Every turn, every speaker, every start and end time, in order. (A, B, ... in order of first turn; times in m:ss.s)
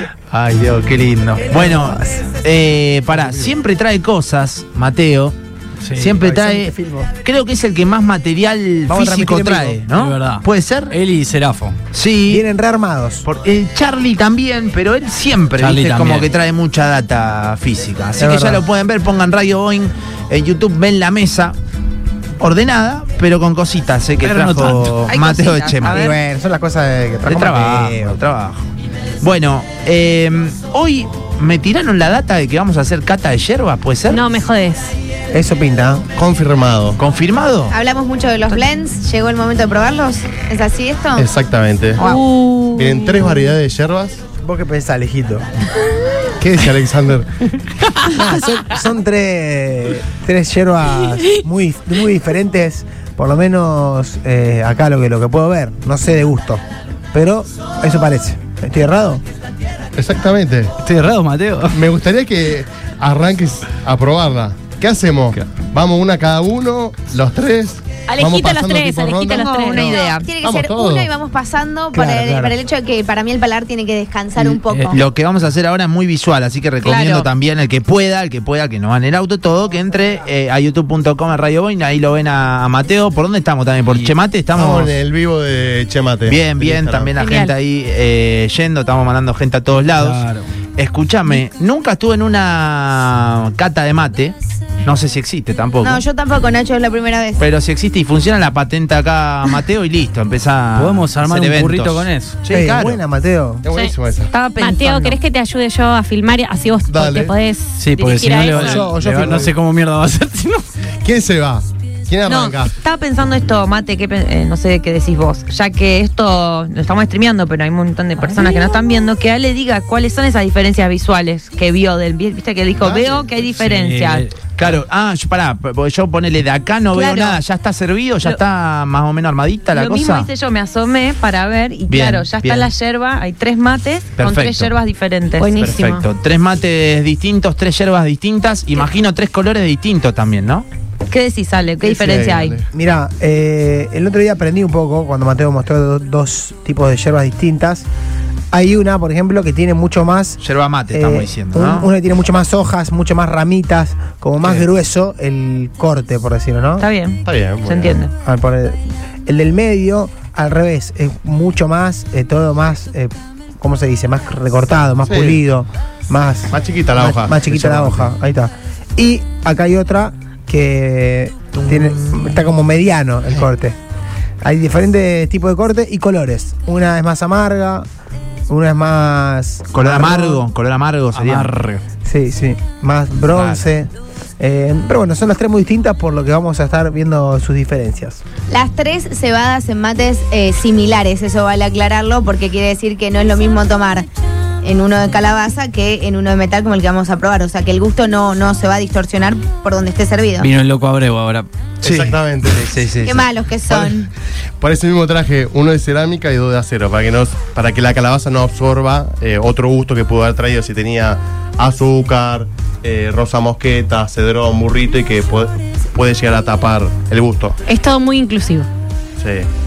0:00.3-0:01.4 A
0:01.3-0:05.4 B
0:01.5-0:02.3 C
0:05.8-0:06.2 A
0:05.9-0:11.0 B
0:06.2-0:07.1 C
0:08.9-0:09.8 C
0:09.9-0:11.8 A
0:11.9-0:12.4 B
0:12.3-0:13.2 C
0:13.2-0:21.6 B
0:15.6-0:16.3 A
0:18.2-0:18.6 C
0:22.4-0:26.0 B
0:24.2-0:25.0 A
0:24.9-0:26.2 D
0:25.9-0:28.2 C
0:27.3-0:28.7 B
0:29.2-0:34.2 B
0:34.1-0:35.0 E
0:35.3-0:36.1 C
0:36.2-0:37.0 F
0:37.0-0:37.8 B
0:37.7-0:41.3 G
0:41.2-0:42.0 F
0:42.0-0:43.3 E
0:42.7-0:44.2 F
0:44.4-0:45.5 C
0:46.4-0:47.3 F
0:48.1-0:56.6 C
0:57.1-0:59.2 C
1:00.0-1:00.7 F
1:00.8-1:01.8 A
1:01.7-1:11.1 F
1:08.1-1:10.0 E
1:09.3-1:10.3 D
1:09.8-1:15.0 G
1:11.9-1:12.6 C
1:14.5-1:15.0 A
1:14.9-1:24.9 B
1:16.8-1:17.3 D
1:24.6-1:27.1 F
1:26.3-1:30.2 B
1:27.2-1:27.5 E
1:29.9-1:30.5 A
1:30.8-1:36.0 B
1:35.8-1:37.4 G
1:37.4-1:43.0 B
1:40.8-1:42.4 A
1:42.5-1:43.6 C
1:43.6-1:44.3 F
1:44.3-1:45.2 D
1:44.6-1:48.8 E
1:46.9-1:47.3 F
1:47.8-1:50.7 A
1:48.5-1:49.5 C
1:51.0-1:52.7 F
1:52.3-2:04.3 D
2:02.8-2:03.3 F
2:03.5-2:04.4 A
2:04.6-2:10.3 B
2:07.0-2:07.3 D
2:09.7-2:15.5 D
2:11.9-2:12.7 B
2:14.2-2:14.7 B
2:15.4-2:16.0 E
2:15.6-2:20.7 B
2:21.1-2:22.6 D
2:21.8-2:22.7 F
2:22.7-2:27.9 C
2:28.5-2:30.4 C
2:30.4-2:31.9 B
2:30.9-2:36.9 C
2:36.8-2:38.1 D
2:37.3-2:38.0 F
2:38.2-2:53.8 C
2:45.1-2:45.4 F
2:46.5-2:48.1 F
2:51.6-2:52.3 B
2:54.4-2:57.9 C
2:58.5-3:00.4 C
2:59.7-3:01.5 B
3:01.2-3:01.8 A
3:02.0-3:08.2 C
3:03.3-3:03.7 B
3:08.5-3:14.1 G
3:14.6-3:20.5 G
3:20.4-3:21.5 A
3:21.8-3:22.6 F
3:21.8-3:23.3 B
3:23.0-3:24.1 G
3:23.7-3:24.0 F
3:24.6-3:37.6 F
3:37.7-3:38.7 E
3:39.2-3:39.5 F